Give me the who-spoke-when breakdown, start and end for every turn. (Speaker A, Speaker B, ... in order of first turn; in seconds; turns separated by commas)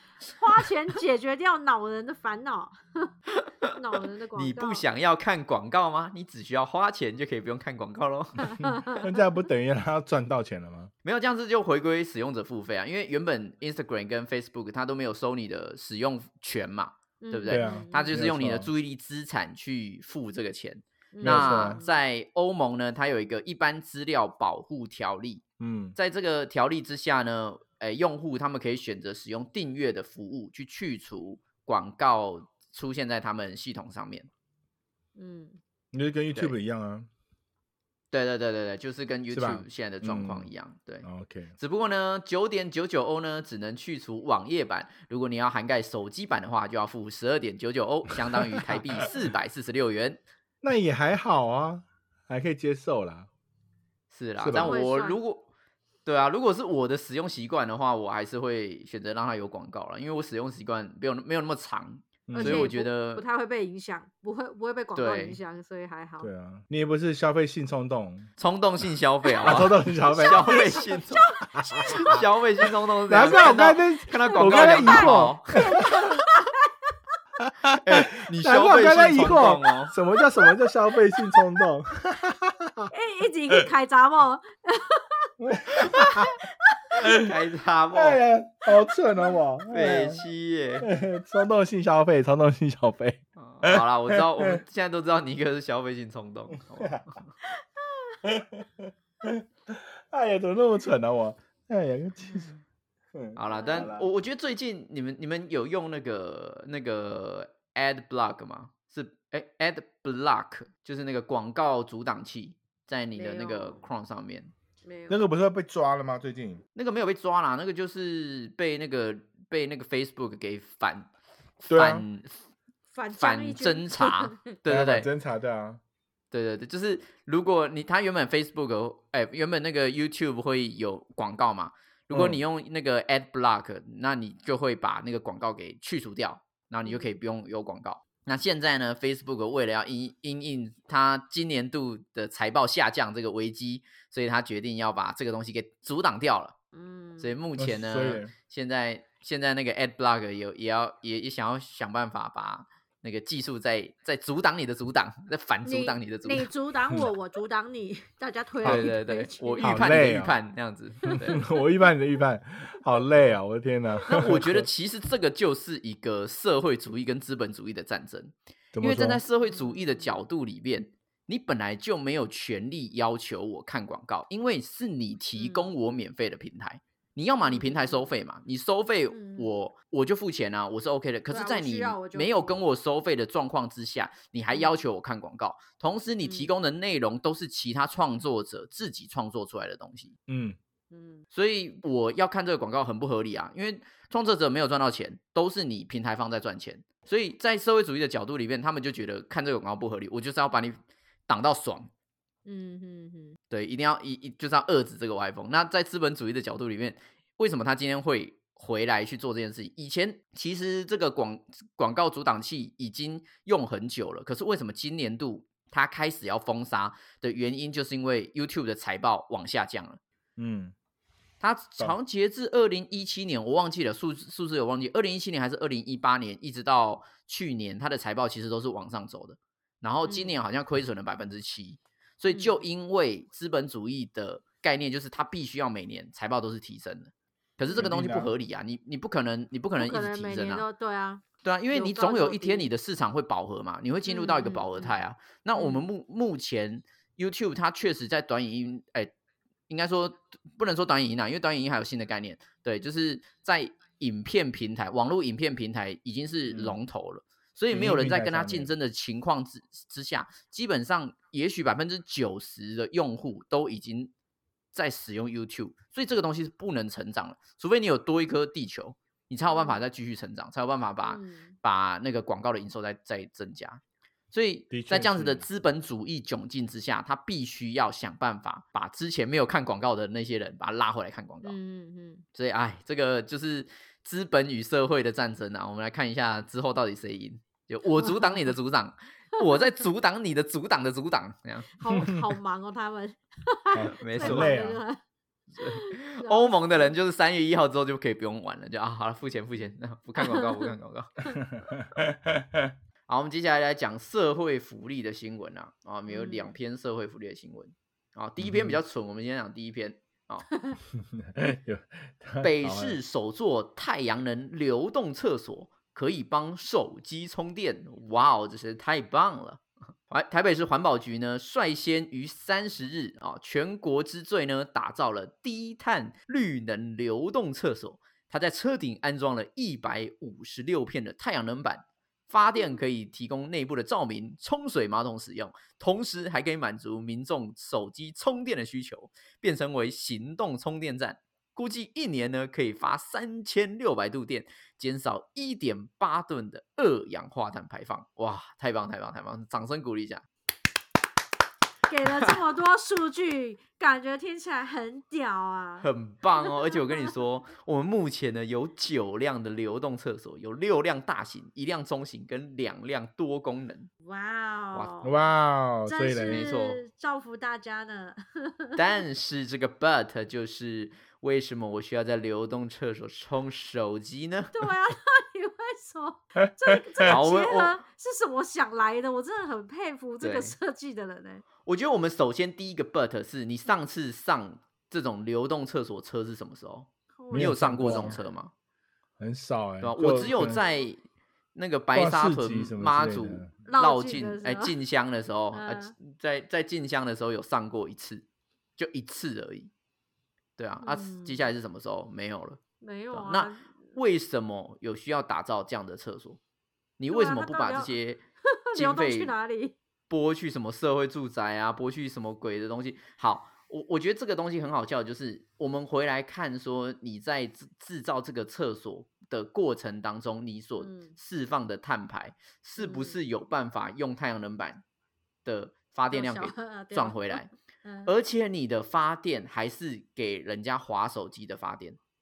Speaker A: 0.4-3.1, Speaker B: 3.3-3.8, Speaker A: 3.7-4.8, Speaker B: 4.3-8.5, Speaker A: 8.4-9.1, Speaker C: 8.9-10.9, Speaker B: 11.0-25.4, Speaker A: 17.2-18.2, Speaker C: 17.5-18.7, Speaker A: 21.1-22.0, Speaker C: 21.2-21.8, Speaker C: 25.6-25.9, Speaker B: 25.9-34.3, Speaker A: 35.1-35.6, Speaker C: 35.9-37.1, Speaker B: 38.1-41.1, Speaker C: 39.3-40.5, Speaker C: 41.0-41.5, Speaker B: 41.6-50.2, Speaker C: 48.6-48.9, Speaker C: 50.6-53.3, Speaker B: 54.1-55.5, Speaker C: 54.4-54.7, Speaker A: 54.5-55.2, Speaker B: 56.0-63.2, Speaker C: 62.3-62.7, Speaker A: 62.3-66.3, Speaker B: 65.0-65.4, Speaker C: 66.2-68.3, Speaker B: 68.4-71.3, Speaker C: 69.4-70.6, Speaker A: 70.1-72.2, Speaker C: 71.6-72.2, Speaker B: 71.9-75.8, Speaker C: 73.1-76.0, Speaker A: 74.2-76.7, Speaker C: 77.5-82.9, Speaker B: 77.7-79.9, Speaker A: 82.9-86.8, Speaker C: 85.4-86.3, Speaker B: 87.1-88.2, Speaker C: 87.9-90.2, Speaker B: 89.7-90.9, Speaker C: 90.8-94.6, Speaker B: 93.4-97.2, Speaker C: 96.7-97.0, Speaker C: 98.2-102.5, Speaker A: 102.2-102.5, Speaker C: 103.1-104.1, Speaker B: 103.3-114.5, Speaker A: 103.5-103.9, Speaker A: 113.1-113.8, Speaker A: 114.8-115.2, Speaker C: 115.1-116.6, Speaker B: 116.8-121.1, Speaker B: 121.6-122.3, Speaker C: 121.7-122.0, Speaker A: 122.9-124.5, Speaker B: 123.2-125.1, Speaker C: 124.7-125.8, Speaker B: 126.3-146.6, Speaker C: 132.1-132.4, Speaker A: 136.8-137.2, Speaker A: 146.7-147.3, Speaker B: 147.2-156.5, Speaker C: 147.6-148.3, Speaker A: 155.6-159.9, Speaker C: 158.6-158.9, Speaker B: 158.6-161.4, Speaker C: 159.6-160.3, Speaker A: 161.1-161.4, Speaker C: 161.2-164.7, Speaker B: 164.1-190.1, Speaker C: 168.7-169.2, Speaker A: 169.4-170.1, Speaker A: 175.4-175.7, Speaker A: 177.4-178.1, Speaker A: 179.1-179.5, Speaker A: 181.3-182.4, Speaker A: 184.5-184.8, Speaker A: 186.2-186.5, Speaker C: 190.3-190.6, Speaker A: 190.9-191.2, Speaker B: 191.3-201.9, Speaker A: 202.4-203.4, Speaker B: 203.5-220.0, Speaker C: 220.4-220.7, Speaker B: 221.4-240.6, Speaker A: 230.0-230.3, Speaker A: 232.3-232.6, Speaker C: 237.7-238.3, Speaker A: 239.8-242.7, Speaker B: 241.4-249.1, Speaker A: 244.1-245.0, Speaker A: 245.5-245.8, Speaker B: 249.7-264.1, Speaker C: 256.5-256.8, Speaker C: 257.7-258.7, Speaker B: 264.7-281.6, Speaker A: 269.5-269.8, Speaker A: 271.0-271.6, Speaker C: 274.7-275.4, Speaker A: 281.4-282.2, Speaker B: 282.3-291.7, Speaker A: 288.0-288.4, Speaker A: 291.7-295.0, Speaker C: 291.9-292.2, Speaker C: 293.7-294.8, Speaker B: 294.0-294.6, Speaker B: 295.6-301.3, Speaker A: 295.6-296.9, Speaker A: 299.6-300.7, Speaker C: 301.5-302.7, Speaker B: 303.1-310.5, Speaker A: 306.1-306.5, Speaker C: 308.4-308.8, Speaker C: 310.9-313.0, Speaker B: 312.4-350.2, Speaker A: 332.6-332.8, Speaker A: 351.9-355.9, Speaker B: 352.1-352.3, Speaker B: 355.8-363.9, Speaker A: 356.4-357.1, Speaker A: 364.0-365.1, Speaker C: 365.0-366.5, Speaker A: 365.9-368.8, Speaker B: 366.2-366.8, Speaker B: 368.8-374.6, Speaker A: 374.5-381.4, Speaker B: 377.0-377.8, Speaker B: 380.2-380.5, Speaker B: 381.6-388.5, Speaker A: 387.1-388.3, Speaker C: 387.3-388.1, Speaker C: 389.2-390.6, Speaker B: 389.8-391.0, Speaker B: 391.5-398.2, Speaker C: 391.9-393.5, Speaker A: 393.6-394.7, Speaker A: 395.5-395.9, Speaker B: 398.8-399.7, Speaker B: 400.6-402.6, Speaker A: 400.8-401.5, Speaker A: 402.8-403.7, Speaker B: 403.1-406.4, Speaker B: 407.0-408.2, Speaker A: 407.1-407.9, Speaker A: 408.5-409.8, Speaker B: 408.7-409.3, Speaker B: 410.1-424.8, Speaker A: 420.8-421.1, Speaker A: 422.8-423.2, Speaker B: 425.4-427.5, Speaker A: 426.1-428.1, Speaker B: 428.1-432.0